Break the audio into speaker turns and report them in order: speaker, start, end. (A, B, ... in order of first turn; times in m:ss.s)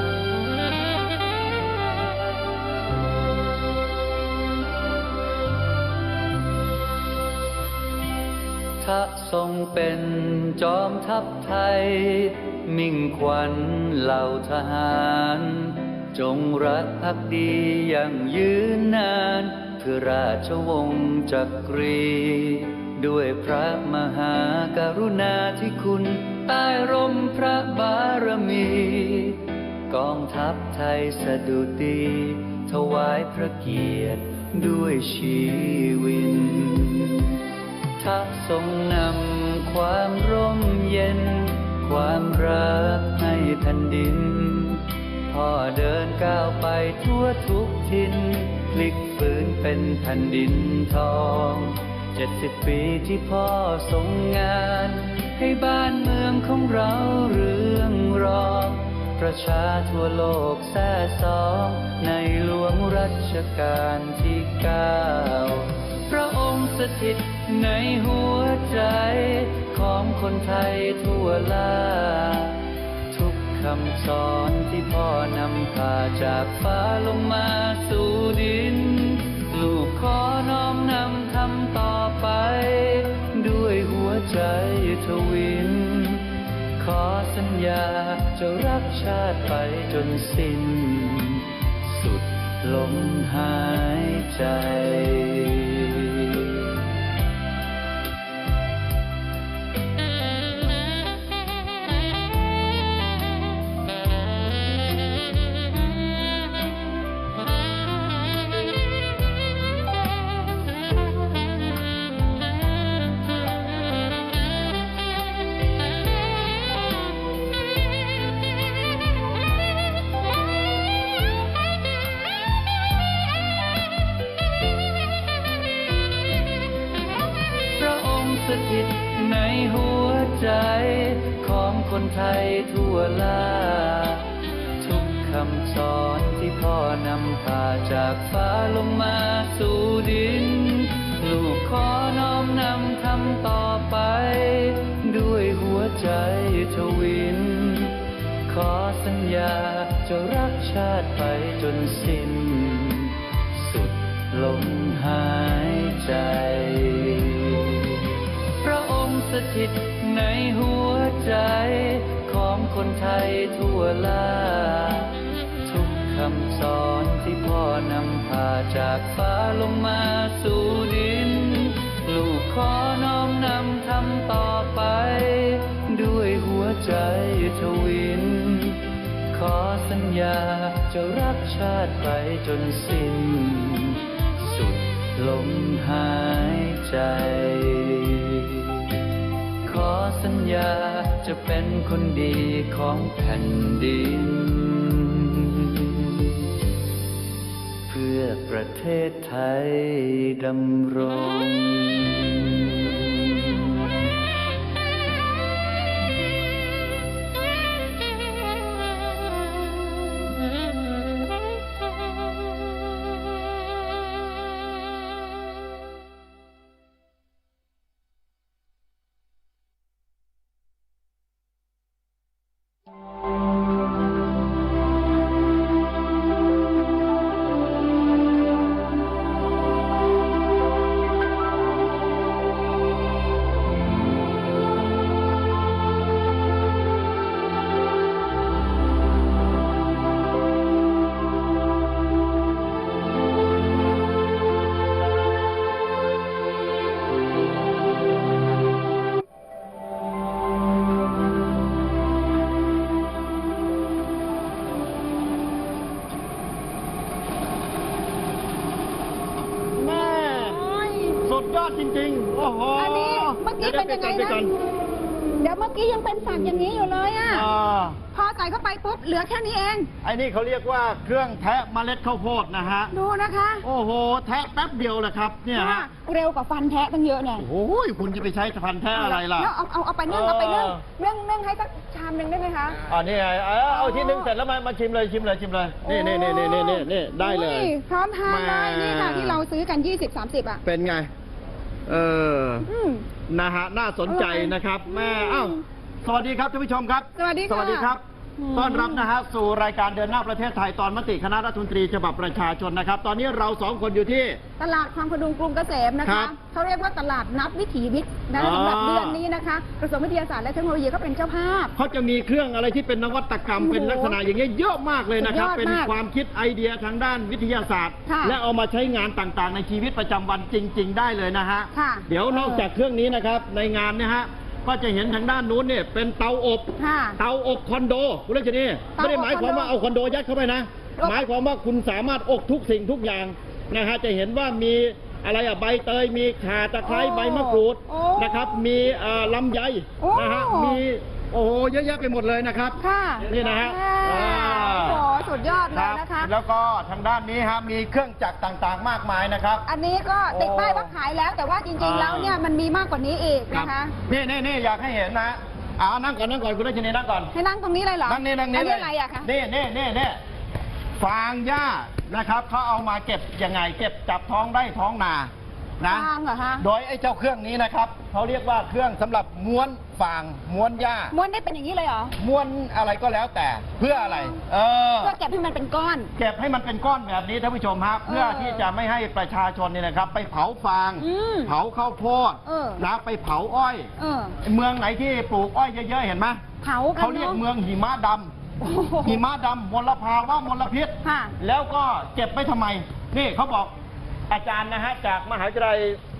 0:08.8-0:37.4 A
0:38.0-1:36.7 A
2:07.7-3:08.9 A
3:09.6-3:16.4 A
3:17.9-3:24.0 A
4:19.7-4:20.6 B
4:19.9-4:21.2 C
4:21.2-4:24.5 B
4:22.8-4:24.5 C
4:25.4-4:27.5 C
4:27.2-4:28.0 B
4:28.1-4:29.9 C
4:30.0-4:32.9 B
4:32.9-4:33.6 C
4:33.6-4:35.9 B
4:35.5-4:37.4 C
4:37.4-4:39.5 B
4:38.9-4:42.8 C
4:40.1-4:40.8 B
4:42.9-4:47.7 B
4:43.7-4:44.3 C
4:45.8-4:50.6 C
4:48.2-4:49.4 B
4:50.6-4:51.1 B
4:51.8-4:52.7 B
4:52.7-4:53.0 C
4:53.3-4:58.0 B
4:54.1-4:55.6 C
4:57.2-4:59.1 C
4:58.5-5:04.4 B
5:04.6-5:11.7 C
5:06.0-5:06.3 B
5:08.4-5:09.2 B
5:11.8-5:45.0 B
5:13.6-5:14.2 C
5:15.2-5:15.9 C
5:18.1-5:18.4 C
5:21.7-5:22.6 C
5:26.8-5:27.2 C
5:29.0-5:29.7 C
5:31.0-5:31.2 C
5:36.8-5:38.6 C
5:40.0-5:40.8 C
5:42.8-5:46.3 C
5:45.7-5:49.6 B
5:49.7-5:53.9 C
5:50.3-5:50.9 B
5:51.8-5:52.4 B
5:53.5-5:57.3 B
5:57.3-5:59.3 C
5:58.0-6:00.2 B
6:01.0-6:11.1 B
6:05.9-6:06.6 C
6:11.1-6:12.1 C
6:12.2-6:15.1 B
6:13.8-6:14.4 C
6:15.0-6:16.1 C
6:16.2-6:23.9 B
6:18.1-6:18.7 C
6:21.0-6:21.5 C
6:22.4-6:22.8 C
6:24.0-6:24.4 C
6:24.4-6:26.4 B
6:26.6-6:27.4 C
6:27.0-6:28.3 B
6:28.6-6:29.2 C
6:29.0-6:33.7 B
6:31.0-6:31.3 C
6:34.3-6:36.0 B